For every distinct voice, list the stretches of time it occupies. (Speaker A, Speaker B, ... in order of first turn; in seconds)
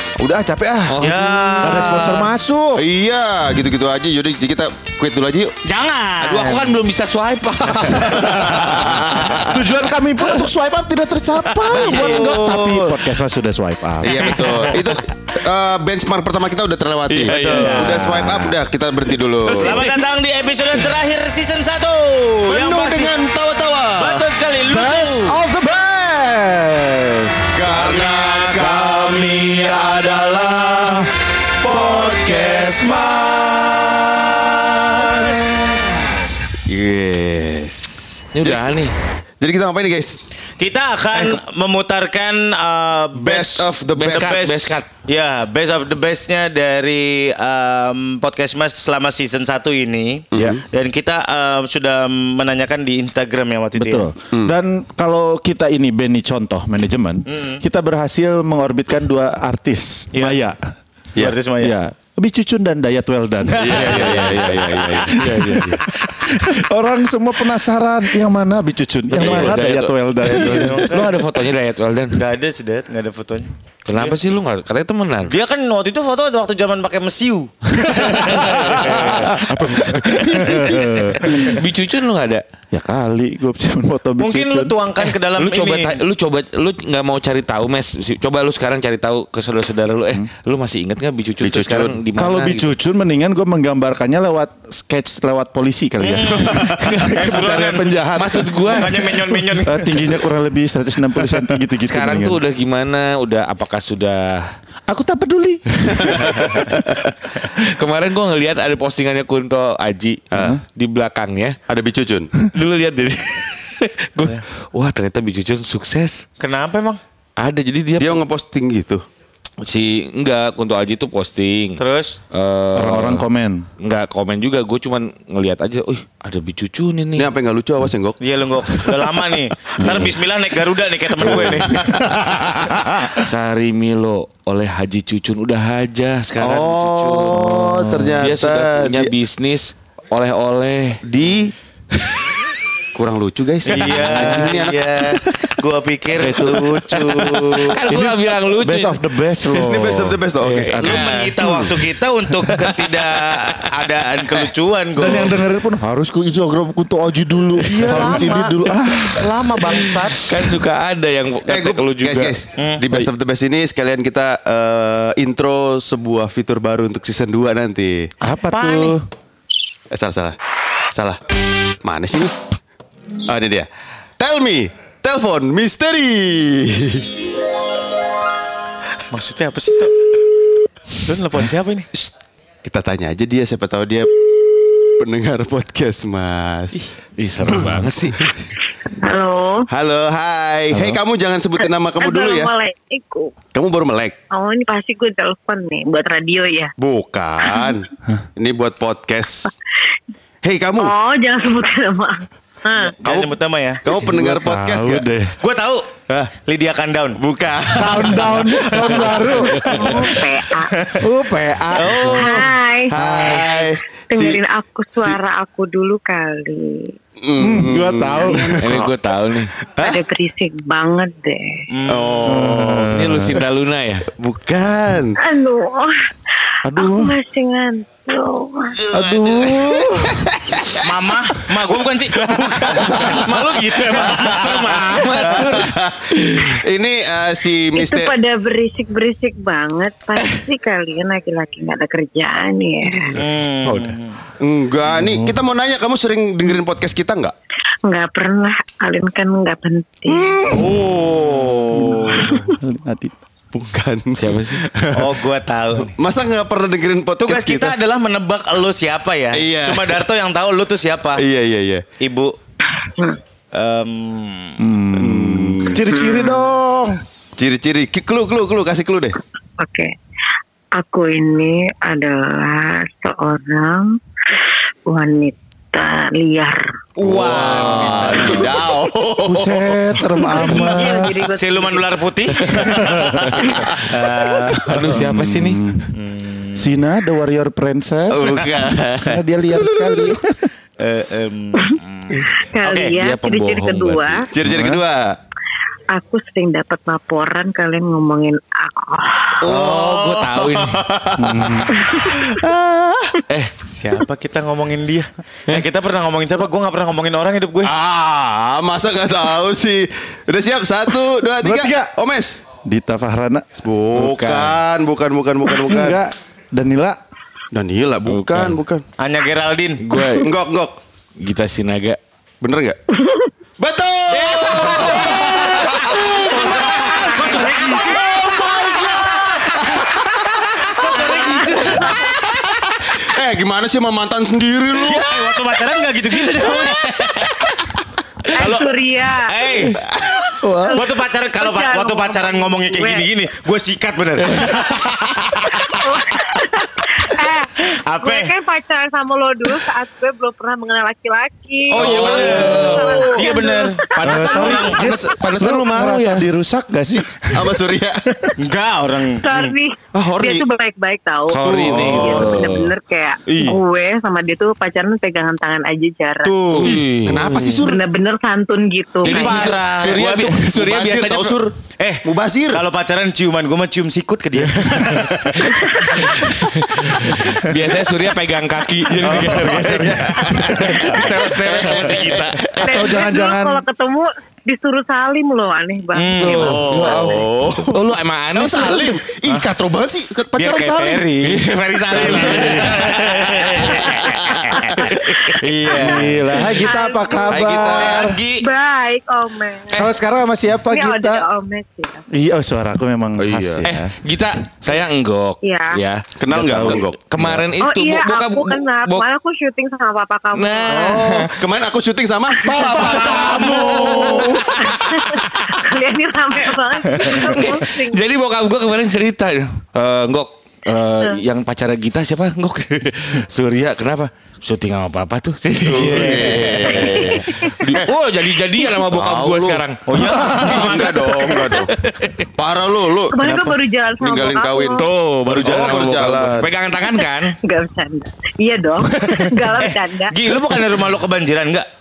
Speaker A: 0.2-1.0, 2.8-5.5, 8.5-9.6, 11.7-13.0, 14.0-19.9, 22.4-24.3, 27.5-31.1, 31.6-35.9, 36.7-38.7, 39.4-40.2, 43.1-44.4, 50.3-50.6, 63.6-65.7, 69.2-69.5, 91.4-92.0, 105.9-106.9, 110.3-110.6, 111.7-112.3, 118.0-119.0, 127.2-128.2, 131.2-132.1, 136.4-139.1, 141.0-141.5, 142.9-145.2, 149.5-151.3, 157.9-158.2, 161.4-168.1, 169.9-170.4, 170.9-171.2, 171.8-172.3, 173.2-173.7, 174.2-177.1, 182.6-186.9, 187.5-188.3, 189.7-192.5, 193.5-194.2, 196.8-199.5, 200.4-200.9, 203.0-203.3, 203.8-205.1, 207.2-209.4, 211.7-214.4, 217.2-218.9, 219.6-220.0, 221.9-223.4, 224.2-225.2, 229.2-229.8, 230.5-230.9, 232.7-232.9, 234.0-234.7, 235.2-238.1, 244.4-247.3, 251.7-252.4, 253.5-255.2, 255.9-257.7, 259.3-260.0, 261.1-261.8, 264.9-265.9, 267.4-269.2, 277.0-279.8, 288.1-288.8, 294.3-295.2, 299.4-303.2, 307.6-312.4, 313.6-316.0, 317.5-318.9, 320.2-320.8, 322.4-322.8, 323.6-331.0, 333.0-335.2, 351.7-353.3, 354.0-356.0, 357.3-358.1, 359.9-360.5, 361.4-362.5, 366.5-367.8, 369.8-372.6, 379.0-382.8, 386.3-387.8, 388.3-391.1, 391.9-392.8, 397.3-398.1, 403.2-403.6, 406.2-407.4, 410.7-414.5, 425.6-427.9, 428.8-431.7, 432.3-436.5
Speaker B: 0.9-2.0, 6.2-9.2, 17.1-18.6, 19.4-20.0, 38.3-38.9, 44.0-44.9, 64.0-65.8, 69.1-72.2, 73.8-75.4, 78.0-82.4, 85.0-92.7, 98.2-99.5, 101.8-104.5, 107.6-111.6, 112.5-116.2, 117.4-118.2, 119.6-121.8, 122.3-123.2, 123.8-127.3, 133.1-141.0, 143.7-144.5, 147.6-149.0, 150.4-151.7, 152.6-153.7, 157.7-158.1, 159.7-163.1, 187.2-188.5, 218.6-219.5, 222.9-224.1, 232.6-236.6, 243.7-243.9, 254.2-254.6, 277.2-278.5, 284.6-285.6, 293.0-294.3, 299.4-300.8, 303.3-303.7, 313.9-314.6, 318.1-318.6, 319.8-320.3, 321.2-322.0, 324.2-324.8, 344.3-344.7, 351.9-352.6, 354.8-356.3, 361.3-362.7, 366.5-367.6, 369.0-371.5, 374.6-375.4, 376.1-382.4, 386.2-386.9, 387.7-389.0, 391.2-394.9, 403.6-409.1, 410.3-411.4, 413.1-414.5, 417.0-430.6, 431.5-432.2, 434.8-437.4
Speaker C: 1.0-2.3, 5.6-6.8, 7.8-8.4, 11.7-12.3, 17.2-18.3, 19.5-23.1, 23.9-25.4, 27.8-28.7, 40.6-54.1, 57.3-57.6, 60.1-60.4, 61.1-61.8, 63.5-64.4, 70.3-71.2, 72.1-74.2, 75.3-79.3, 80.8-81.4, 84.2-86.0, 96.0-100.1, 116.4-117.0, 121.8-122.2, 128.2-131.9, 143.7-147.9, 150.8-155.3, 157.7-160.3, 162.6-162.8, 168.5-168.9, 179.1-180.1, 180.9-181.9, 203.0-203.8, 205.4-207.2, 207.9-210.2, 210.7-211.1, 211.7-212.5, 221.7-222.4, 228.9-229.2, 230.8-233.2, 233.9-235.4, 243.1-244.2, 250.5-252.5, 254.9-255.9, 257.2-261.2, 262.0-262.3, 263.5-264.6, 277.0-278.6, 280.5-285.0, 285.9-286.6, 288.2-289.2, 290.8-292.9, 303.6-307.7, 319.0-319.8, 324.3-329.5, 330.6-332.3, 334.8-337.3, 338.3-346.2, 347.6-348.3, 351.7-354.9, 358.4-359.5, 363.3-363.6, 366.2-366.8, 369.0-370.4, 371.7-375.8, 377.2-377.5, 379.0-379.4, 381.6-382.4, 385.9-387.1, 390.4-396.3, 397.7-398.5, 413.0-414.4, 429.9-431.6, 439.4-441.6
Speaker D: 1.6-2.8, 8.2-14.6, 24.6-27.6, 28.5-31.0, 31.6-32.9, 33.5-35.8, 53.7-60.6, 61.6-70.9, 77.8-81.6, 82.7-84.7, 92.1-99.0, 99.6-102.4, 104.9-106.8, 122.7-123.7, 131.8-133.2, 146.1-152.7, 154.9-159.5, 168.2-169.1, 190.7-191.0, 204.0-205.4, 207.7-209.7, 211.0-213.5, 217.4-218.8, 222.2-223.4, 226.6-227.1, 228.9-230.2, 244.9-245.4, 251.8-253.2, 264.6-267.0, 279.2-281.3, 282.7-283.5, 284.8-285.9, 286.6-290.5, 294.4-294.8, 301.2-301.8, 311.4-311.9, 312.6-313.4, 315.6-317.0, 352.1-352.7, 354.0-357.6, 379.0-380.7, 382.6-383.6, 386.2-387.7, 391.9-393.0, 395.7-398.2, 399.7-401.2, 402.1-403.9, 406.3-407.4, 412.5-414.4
Speaker E: 188.8-189.7, 191.6-193.3, 194.3-196.7, 197.4-197.7, 200.8-203.0, 209.6-210.7, 212.1-216.9, 219.8-221.6, 225.2-226.0, 226.7-228.8, 237.7-243.2, 247.8-250.4, 265.9-266.4, 269.6-269.9, 270.7-276.7, 280.2-281.9, 292.3-294.3, 295.9-299.5, 301.9-302.2, 323.0-323.3, 324.9-325.4, 326.6-328.5, 331.0-331.9, 338.3-339.3, 340.6-343.1, 345.6-354.7, 359.2-366.3, 367.6-369.6, 375.5-376.0, 380.8-381.3, 382.6-386.6, 394.5-397.5, 398.3-399.9, 400.7-402.1, 405.4-405.8, 407.6-411.1, 412.4-418.0, 426.7-427.6, 433.1-434.9, 436.9-440.2